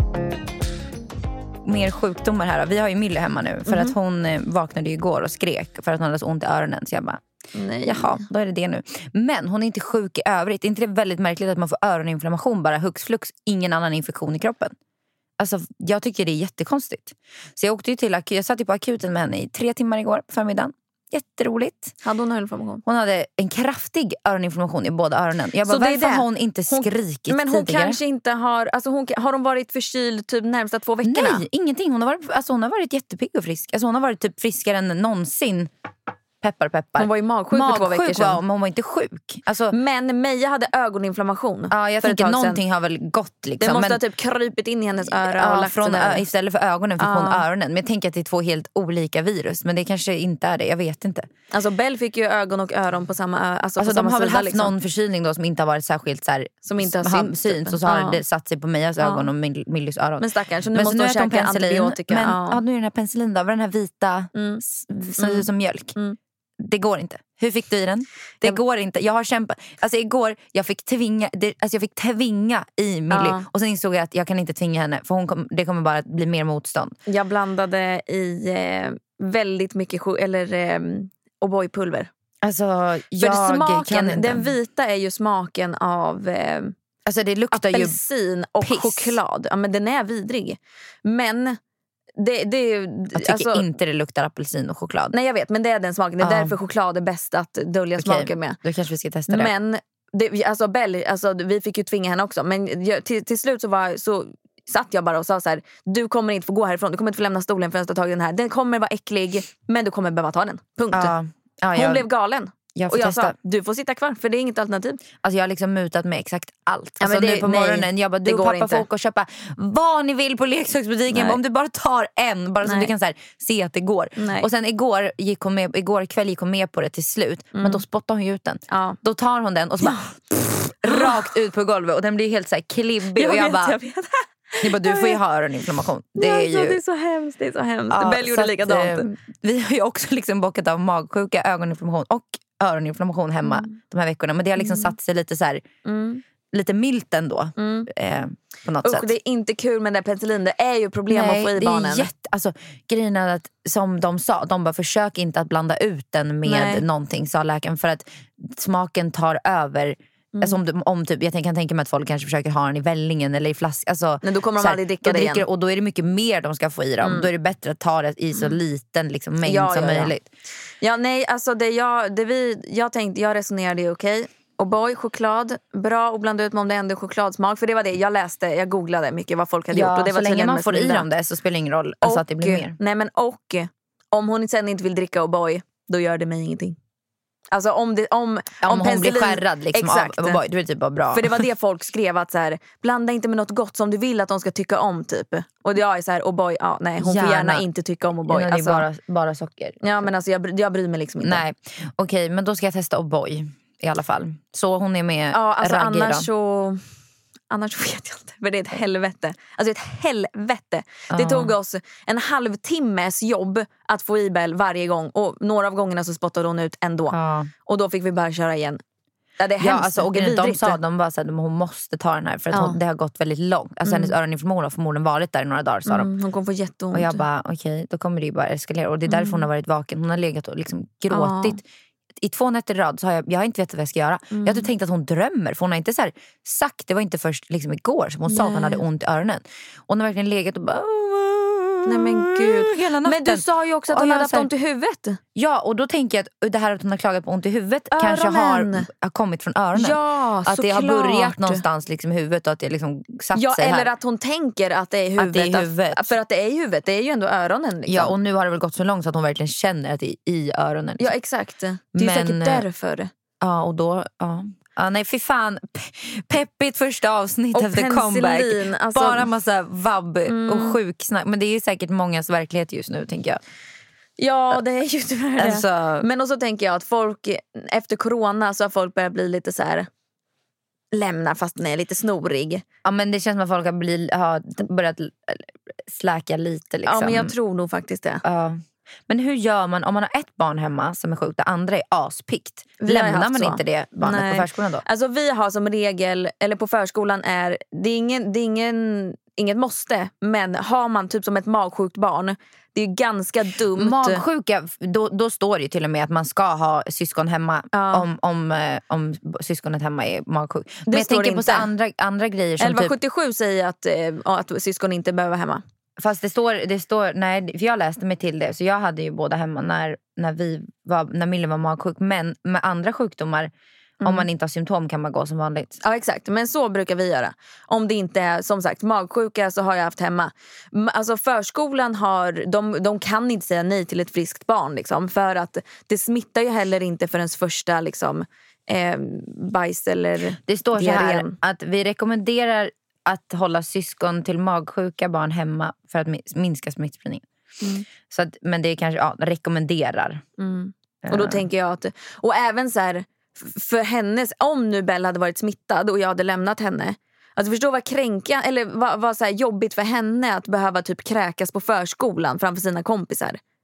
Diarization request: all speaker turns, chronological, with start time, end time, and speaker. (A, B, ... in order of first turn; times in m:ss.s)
0:01.6-0:07.2 A
0:03.7-0:03.9 B
0:07.6-0:08.2 B
0:07.8-0:14.7 A
0:15.4-0:22.0 A
0:22.0-0:22.8 B
0:22.8-0:28.0 A
0:25.6-0:31.4 B
0:31.0-0:35.7 A
0:36.4-0:39.8 A
0:37.0-0:38.4 B
0:39.7-0:42.6 B
0:41.7-0:44.0 A
0:43.6-0:46.2 B
0:45.1-0:51.3 A
0:47.0-0:47.4 B
0:51.5-0:54.7 B
0:53.8-1:06.0 A
0:56.6-0:58.2 B
0:59.0-0:59.3 B
1:00.2-1:02.6 B
1:04.4-1:04.6 B
1:05.2-1:06.2 B
1:06.6-1:17.0 A
1:13.1-1:13.5 B
1:17.1-1:22.1 B
1:22.4-1:24.5 A
1:23.2-1:26.7 B
1:27.0-1:28.0 A
1:27.5-1:31.6 B
1:28.6-1:29.2 A
1:32.2-1:33.6 B
1:33.2-1:35.1 A
1:35.1-1:38.6 B
1:36.2-1:36.5 A
1:38.0-1:39.5 A
1:39.3-1:51.1 B
1:50.9-1:52.1 A
1:51.8-1:55.0 B
1:52.8-1:53.4 A
1:55.2-2:13.8 A
1:57.0-1:58.8 B
2:01.1-2:01.4 B
2:02.6-2:02.9 B
2:04.2-2:04.5 B
2:07.6-2:07.8 B
2:08.7-2:09.0 B
2:09.8-2:11.2 B
2:13.2-2:15.2 B
2:14.6-2:16.8 A
2:16.2-2:19.1 B
2:17.9-2:25.6 A
2:23.5-2:23.7 B
2:24.6-2:24.9 B
2:25.8-2:26.2 B
2:26.5-2:29.1 A
2:27.6-2:27.9 B
2:28.8-2:32.1 B
2:31.1-2:50.3 A
2:36.4-2:36.8 B
2:40.3-2:40.6 B
2:44.2-2:45.4 B
2:47.0-2:47.3 B
2:49.4-2:50.1 B
2:50.8-3:01.1 B
2:59.7-3:02.8 A
3:02.0-3:06.8 B
3:07.5-3:10.4 B
3:08.6-3:11.4 A
3:11.1-3:18.8 B
3:17.0-3:17.6 A
3:18.3-3:20.1 A
3:19.8-3:21.4 B
3:21.2-3:26.3 A
3:25.3-3:26.8 B
3:27.5-3:38.8 B
3:31.1-3:31.5 A
3:37.1-3:37.5 A
3:39.4-3:40.8 B
3:39.6-3:46.1 A
3:42.5-3:42.8 B
3:43.9-3:44.1 B
3:45.9-3:47.2 B
3:46.9-3:51.6 A
3:49.1-3:49.4 B
3:51.1-3:51.6 B
3:52.2-4:04.5 A
3:54.3-3:54.7 B
3:58.3-3:58.8 B
4:01.9-4:05.2 B
4:05.4-4:13.9 A
4:07.9-4:08.9 B
4:09.8-4:11.6 B
4:13.4-4:18.1 B
4:15.2-4:16.1 A
4:17.9-4:21.1 A
4:21.0-4:23.1 B
4:21.9-4:22.7 A
4:23.4-4:33.4 A
4:27.5-4:29.3 B
4:30.3-4:30.8 B
4:34.2-4:39.9 B
4:35.4-4:36.1 A
4:40.9-4:42.6 B
4:42.8-4:47.3 A
4:46.9-4:48.2 B
4:48.2-4:54.8 A
4:52.8-5:04.2 B
5:03.8-5:12.9 A
5:07.7-5:08.1 B
5:10.9-5:11.7 B
5:12.6-5:15.6 B
5:16.0-5:25.8 A
5:24.0-5:24.3 B
5:25.8-5:41.4 B
5:40.5-5:47.2 A
5:47.6-5:47.9 B
5:48.1-5:50.2 A
5:50.4-6:03.4 B
5:51.0-5:51.5 A